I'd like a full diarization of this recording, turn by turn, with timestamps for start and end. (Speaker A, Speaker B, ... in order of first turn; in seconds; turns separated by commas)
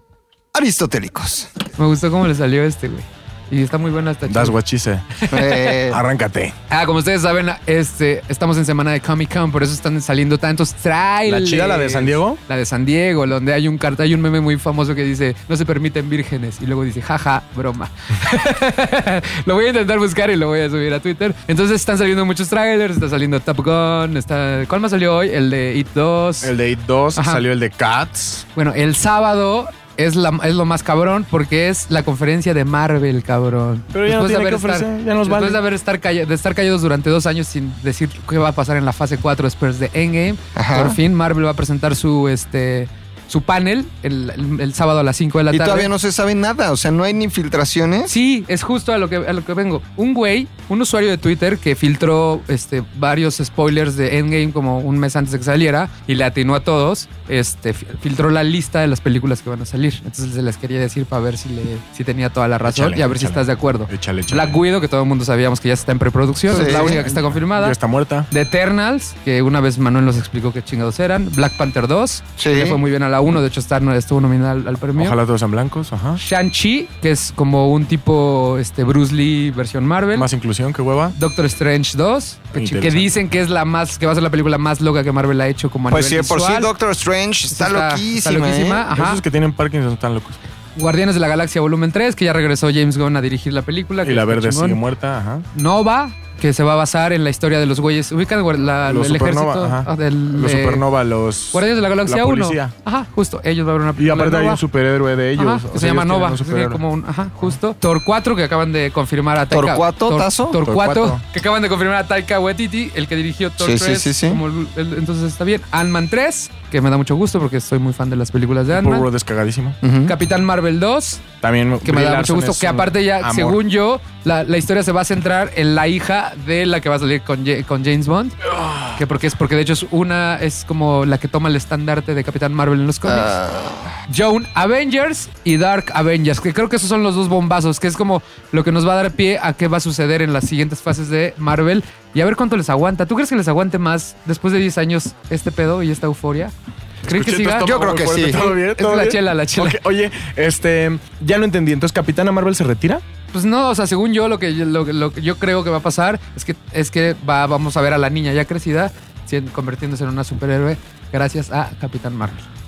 Speaker A: 0.5-1.5, Speaker B: 1.8-4.5, Speaker C: 4.3-5.1, Speaker B: 5.2-5.7, Speaker A: 5.3-6.0, Speaker C: 5.9-6.5, Speaker B: 6.7-26.5, Speaker C: 11.2-12.4, Speaker C: 26.4-28.4, Speaker B: 27.1-27.4, Speaker B: 28.6-45.9, Speaker C: 33.9-35.6, Speaker A: 40.5-41.0, Speaker A: 45.5-48.1, Speaker B: 48.1-67.8, Speaker C: 62.6-64.6, Speaker A: 66.5-67.0, Speaker C: 66.5-68.3, Speaker B: 68.3-75.2, Speaker A: 72.4-72.8, Speaker C: 75.0-76.2, Speaker B: 76.2-80.3, Speaker C: 80.1-81.1, Speaker B: 81.1-86.7, Speaker C: 82.5-83.1, Speaker A: 85.9-88.8, Speaker B: 87.5-89.2, Speaker C: 88.9-90.4, Speaker B: 90.8-94.8, Speaker C: 94.0-95.5, Speaker B: 95.5-100.8, Speaker C: 98.9-102.7, Speaker B: 101.5-104.6, Speaker C: 104.0-106.8, Speaker B: 105.4-119.1, Speaker A: 109.5-110.6, Speaker C: 110.6-111.2, Speaker A: 113.6-114.4, Speaker C: 118.7-119.8, Speaker A: 119.8-120.1, Speaker B: 120.0-121.2, Speaker C: 121.4-123.6, Speaker B: 121.8-128.4, Speaker C: 128.5-128.9, Speaker B: 129.0-133.3, Speaker A: 133.0-133.9, Speaker B: 134.1-146.5, Speaker C: 147.0-153.0, Speaker B: 147.1-147.7, Speaker A: 147.6-148.6, Speaker B: 148.3-149.8, Speaker B: 153.3-162.5